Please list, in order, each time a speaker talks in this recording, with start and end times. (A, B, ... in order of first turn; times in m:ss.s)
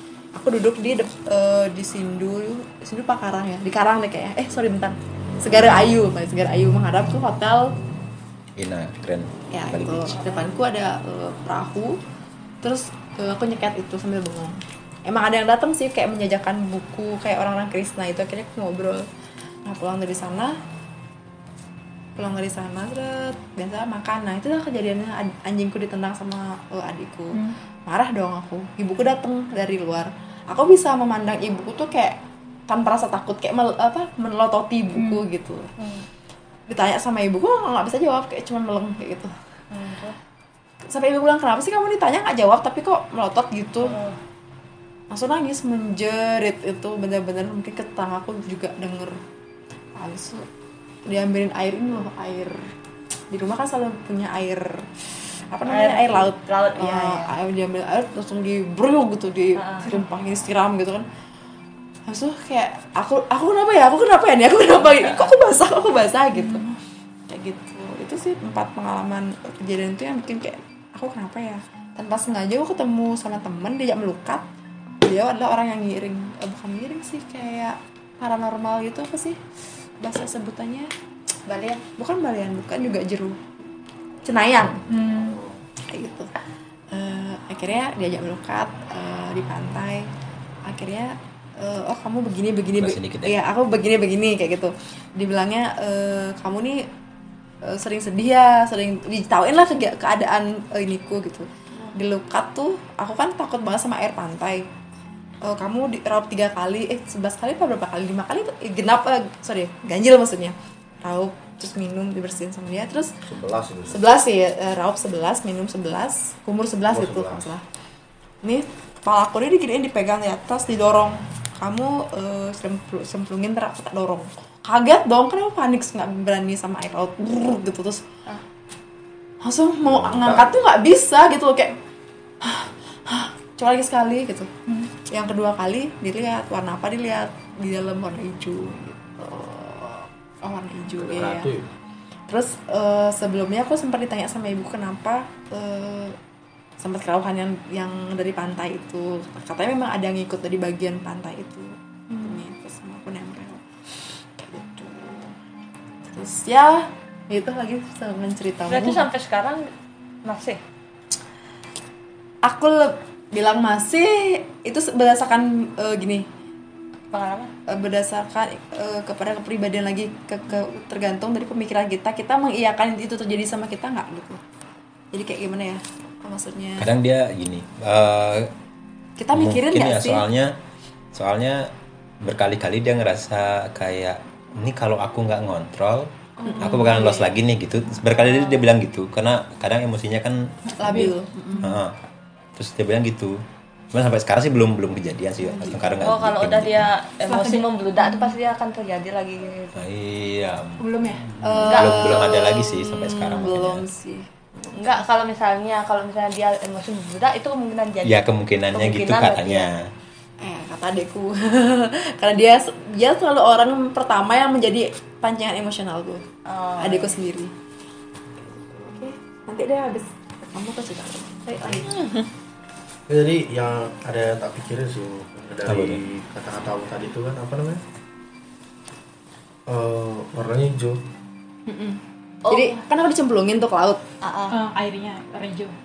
0:00.3-0:07.7 A
0:08.6-0:10.2 B
0:09.5-0:12.0 A
0:10.1-0:10.5 C
0:12.6-0:19.1 A
0:19.6-0:20.6 A
0:22.2-0:35.7 A
0:34.9-0:35.2 D
0:35.8-0:36.0 C
0:36.7-0:39.3 A
0:39.7-0:40.2 C
0:40.9-0:44.0 A
0:43.8-0:44.2 C
0:45.1-0:49.2 A
0:50.0-0:50.4 A
0:51.0-0:52.7 A
0:53.3-0:54.8 A
0:55.5-1:01.0 A
0:55.6-0:57.3 C
0:59.5-0:59.9 C
1:02.1-1:06.6 A
1:06.3-1:06.8 D
1:07.3-1:14.4 A
1:15.0-1:19.4 A
1:20.0-1:20.9 A
1:21.4-1:21.8 C
1:21.9-1:23.4 A
1:24.2-1:24.8 A
1:24.9-1:25.4 D
1:25.2-1:25.5 E
1:25.8-1:26.3 A
1:26.9-1:30.1 A
1:30.6-1:36.8 A
1:32.8-1:33.4 B
1:37.6-1:44.7 A
1:45.4-1:53.1 A
1:53.2-1:54.0 E
1:53.9-1:57.6 A
1:56.9-1:57.5 E
1:58.4-2:08.0 A
2:09.4-2:11.8 A
2:09.8-2:10.6 E
2:12.4-2:14.5 A
2:15.0-2:21.5 A
2:21.0-2:21.7 E
2:22.3-2:26.2 A
2:26.8-2:33.6 A
2:32.1-2:32.4 D
2:34.4-2:35.3 A
2:36.1-2:39.1 A
2:38.7-2:39.7 C
2:40.2-2:40.6 C
2:42.4-2:46.3 A
2:47.1-2:47.5 C
2:47.7-2:54.4 A
2:55.1-2:56.9 A
2:56.8-2:58.5 B
2:59.2-3:00.2 A
2:59.3-3:00.5 B
3:01.1-3:01.7 B
3:02.2-3:11.1 B
3:06.4-3:06.9 D
3:06.5-3:06.9 A
3:06.5-3:07.3 C
3:10.6-3:11.8 D
3:10.8-3:11.6 A
3:11.6-3:11.9 B
3:12.6-3:13.4 B
3:13.9-3:16.9 B
3:16.0-3:19.8 C
3:17.2-3:18.4 D
3:19.7-3:23.8 B
3:20.8-3:21.3 D
3:21.4-3:24.7 A
3:21.6-3:22.6 C
3:24.7-3:29.7 C
3:28.0-3:29.9 B
3:30.4-3:36.2 A
3:36.4-3:37.2 C
3:36.8-3:37.5 A
3:38.8-3:42.2 A
3:41.6-3:41.9 E
3:43.1-3:47.8 E
3:45.6-3:46.0 B
3:49.7-3:51.0 E
3:51.7-3:54.0 A
3:52.4-3:52.8 C
3:54.2-3:54.6 C
3:54.5-3:55.7 D